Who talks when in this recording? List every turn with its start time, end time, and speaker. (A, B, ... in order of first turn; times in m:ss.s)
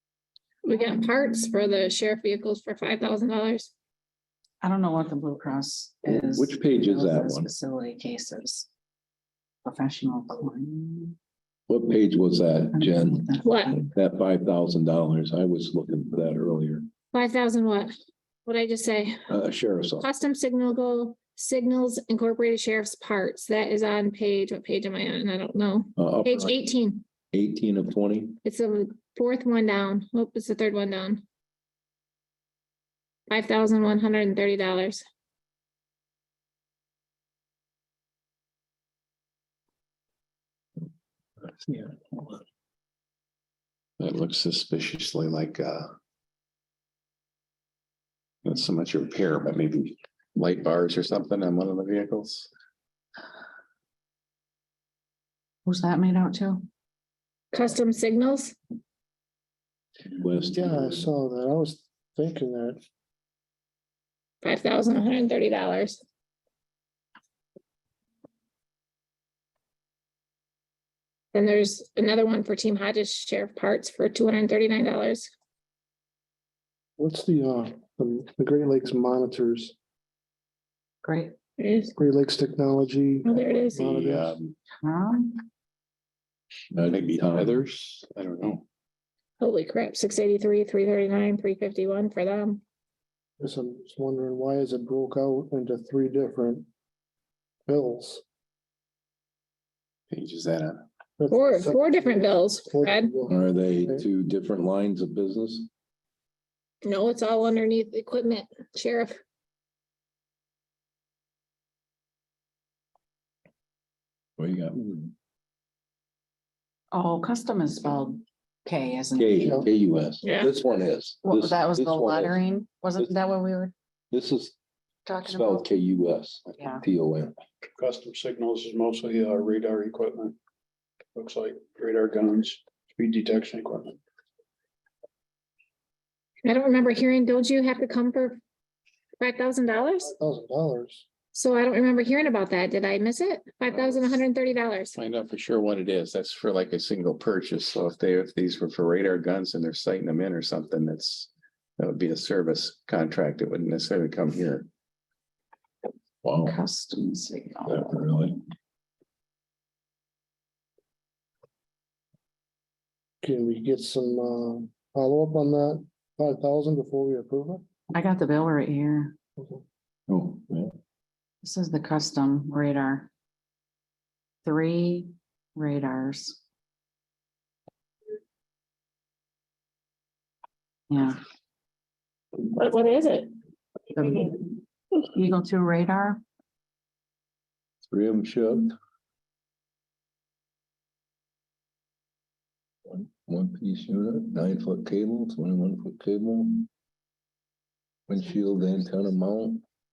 0:00.6-0:03.7 A
0:04.6-0:08.7 B
0:06.0-0:07.5 C
0:09.6-0:11.2 B
0:11.7-0:13.2 C
0:12.7-0:13.9 B
0:13.4-0:13.8 A
0:13.9-0:16.8 C
0:17.1-0:17.9 A
0:18.4-0:19.2 A
0:19.3-0:20.1 C
0:20.0-0:27.0 A
0:26.0-0:26.5 C
0:27.3-0:28.4 C
0:28.4-0:31.2 A
0:33.3-0:35.0 A
0:44.0-0:45.9 D
0:48.4-0:52.5 D
0:55.6-0:56.6 B
0:57.5-0:58.6 A
1:00.0-1:01.1 C
1:00.4-1:02.8 E
1:04.4-1:06.0 A
1:11.3-1:15.3 A
1:17.0-1:19.7 E
1:21.0-1:21.3 B
1:21.6-1:21.9 A
1:21.9-1:24.4 E
1:23.2-1:23.9 A
1:23.9-1:24.5 D
1:24.8-1:25.4 B
1:26.7-1:27.6 C
1:26.8-1:28.6 D
1:29.4-1:32.6 A
1:33.4-1:36.7 E
1:37.7-1:38.2 E
1:40.1-1:40.8 D
1:41.2-1:44.0 E
1:41.3-1:43.1 A
1:43.3-1:45.7 C
1:46.8-1:49.2 A
1:54.4-1:55.1 C
1:56.9-1:59.7 B
1:59.2-2:02.4 C
2:00.2-2:00.5 A
2:01.2-2:03.7 B
2:04.1-2:04.6 C
2:05.0-2:05.7 B
2:05.2-2:07.4 C
2:06.5-2:06.8 B
2:07.8-2:10.4 F
2:11.1-2:14.0 F
2:16.4-2:18.4 A
2:19.2-2:20.1 A
2:20.1-2:21.1 E
2:21.3-2:25.0 A
2:24.9-2:34.7 D
2:36.2-2:36.6 C
2:36.4-2:37.9 B
2:37.7-2:38.4 C
2:43.2-2:47.6 E
2:47.9-2:49.2 B
2:50.1-2:50.7 C
2:51.4-2:53.1 B
2:54.4-2:56.4 B
3:00.9-3:01.2 B
3:02.4-3:03.3 A
3:03.9-3:04.5 B
3:05.1-3:06.2 B
3:07.9-3:08.7 C
3:12.9-3:16.7 C
3:18.1-3:19.6 C